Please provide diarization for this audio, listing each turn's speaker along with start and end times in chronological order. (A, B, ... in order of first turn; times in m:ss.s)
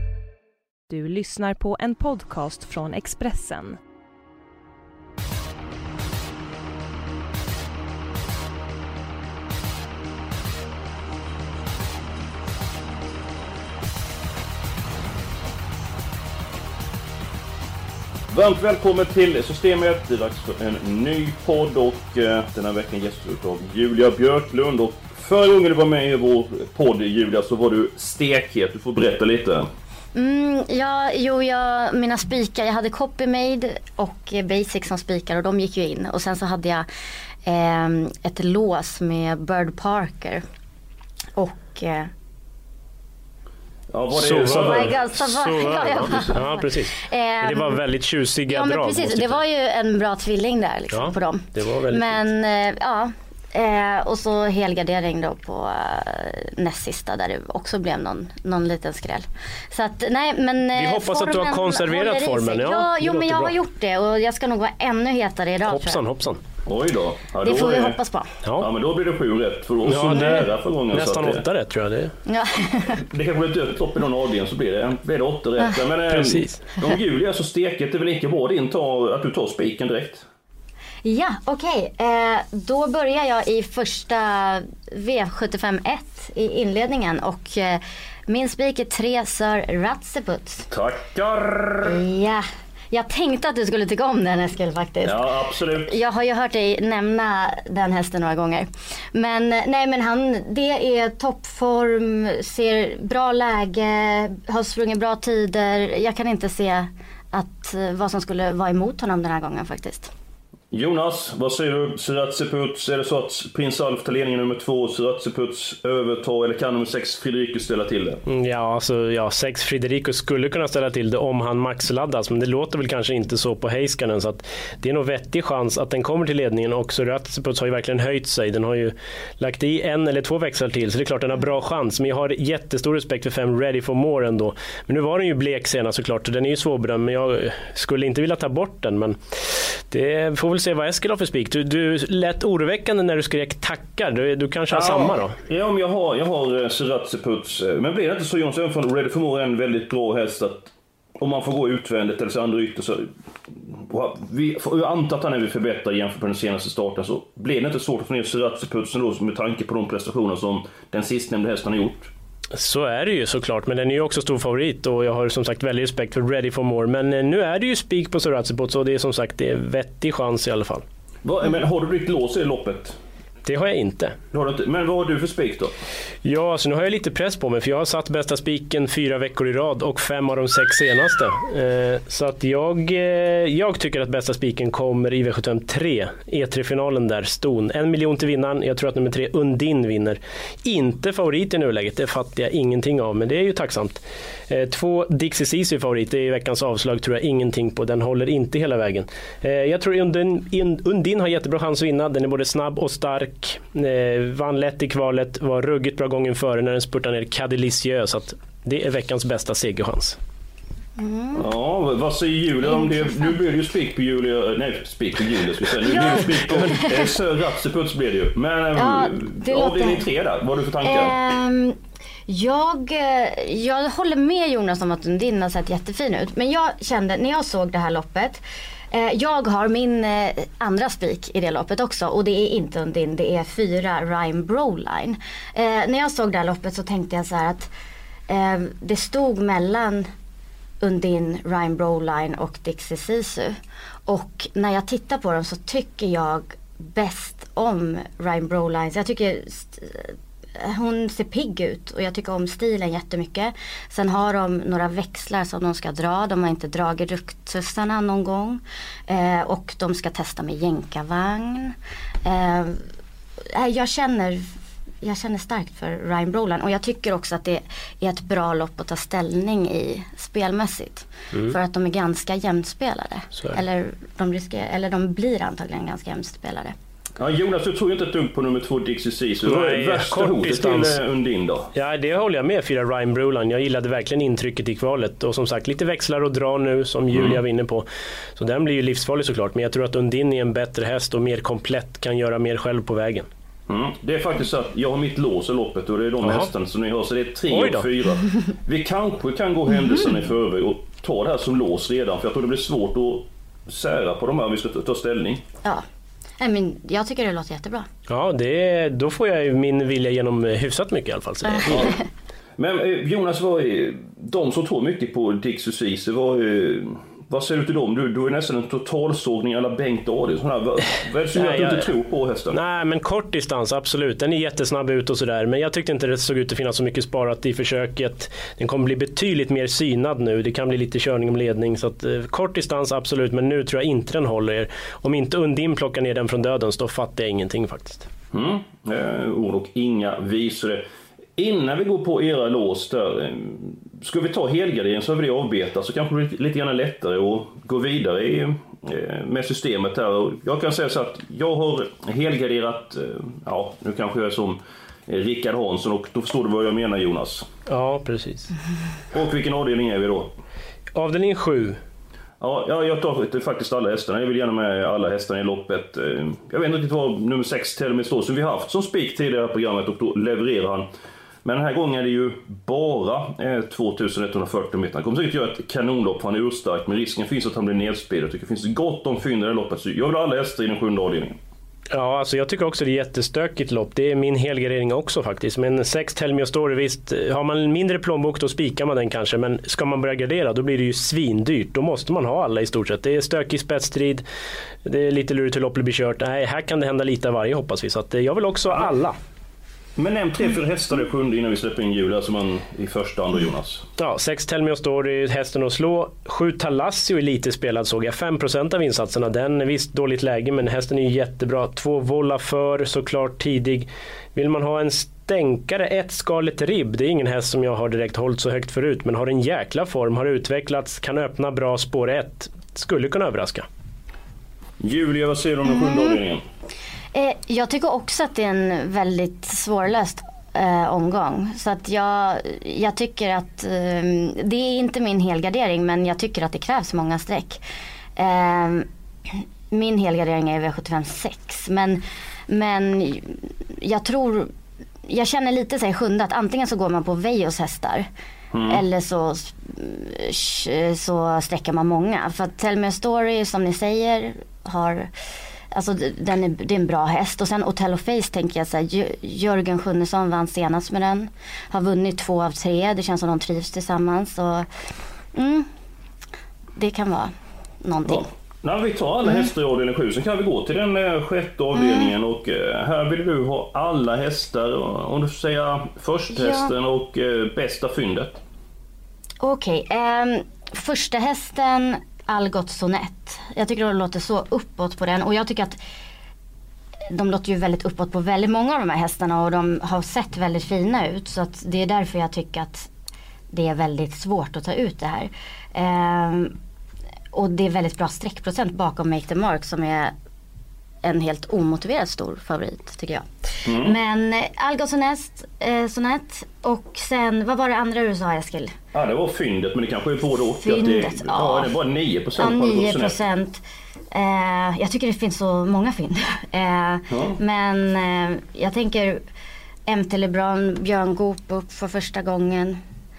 0:00.9-0:03.8 A
0:18.3-0:29.7 B
0:30.2-0:36.9 C
0:37.5-0:40.4 C
0:41.4-0:42.1 C
0:43.9-0:46.4 B
0:44.1-0:49.4 D
0:44.5-0:47.8 C
0:48.5-1:06.0 C
0:50.9-0:52.3 D
1:00.7-1:03.5 D
1:05.7-1:06.4 D
1:06.6-1:08.0 B
1:07.4-1:08.3 C
1:08.6-1:11.4 B
1:09.9-1:12.1 D
1:12.3-1:13.0 C
1:13.0-1:20.2 B
1:16.1-1:16.6 D
1:21.0-1:30.7 C
1:30.7-1:32.0 B
1:31.8-1:35.3 C
1:35.0-1:35.9 B
1:35.9-1:50.1 C
1:50.7-1:58.2 B
1:58.3-2:25.4 D
2:24.7-2:33.1 B
2:33.6-2:42.1 B
2:42.6-2:50.8 D
2:51.2-2:53.0 B
2:53.5-2:54.2 D
2:54.3-2:55.8 B
2:56.2-3:30.2 D
3:31.0-3:31.5 C
3:31.4-3:41.2 B
3:35.9-3:37.0 C
3:38.8-3:40.0 C
3:40.8-3:57.7 C
3:58.3-4:00.1 C
4:00.8-4:22.8 C
4:23.5-4:24.5 C
4:25.0-4:36.8 C
4:37.2-4:41.7 B
4:39.4-4:41.0 D
4:41.8-4:53.3 D
4:47.1-4:47.4 B
4:53.7-5:05.4 B
4:56.2-4:56.5 D
4:57.5-4:57.9 D
5:06.4-5:07.9 C
5:08.1-5:12.0 D
5:11.4-5:12.0 C
5:11.7-5:12.0 B
5:12.6-5:22.6 B
5:21.3-5:21.9 D
5:22.5-5:38.1 D
5:38.3-5:40.8 B
5:41.4-5:57.5 B
5:57.7-5:58.5 D
5:59.1-6:00.4 B
6:01.0-6:01.8 D
6:02.4-6:10.9 B
6:11.4-6:21.4 B
6:21.9-6:34.2 D
6:34.8-6:39.2 D
6:40.0-6:43.9 B
6:44.0-7:03.7 D
7:04.8-7:06.4 B
7:05.7-7:06.2 C
7:07.1-7:17.6 C
7:18.2-7:24.5 C
7:25.1-7:28.1 C
7:28.5-7:28.8 B
7:28.7-7:35.1 C
7:35.7-7:44.7 C
7:45.4-7:45.7 C
7:46.8-7:48.3 C
7:48.1-7:58.4 B
7:51.8-7:52.1 C
7:56.3-7:56.7 C
7:59.4-8:05.8 C
8:07.1-8:12.9 C
8:13.5-8:16.6 C
8:17.3-8:20.1 C
8:21.0-8:28.8 C
8:23.6-8:24.0 B
8:28.9-8:33.2 B
8:30.6-8:31.7 C
8:32.4-8:33.6 C
8:34.1-8:39.2 C
8:37.1-8:37.4 B
8:39.9-8:42.8 C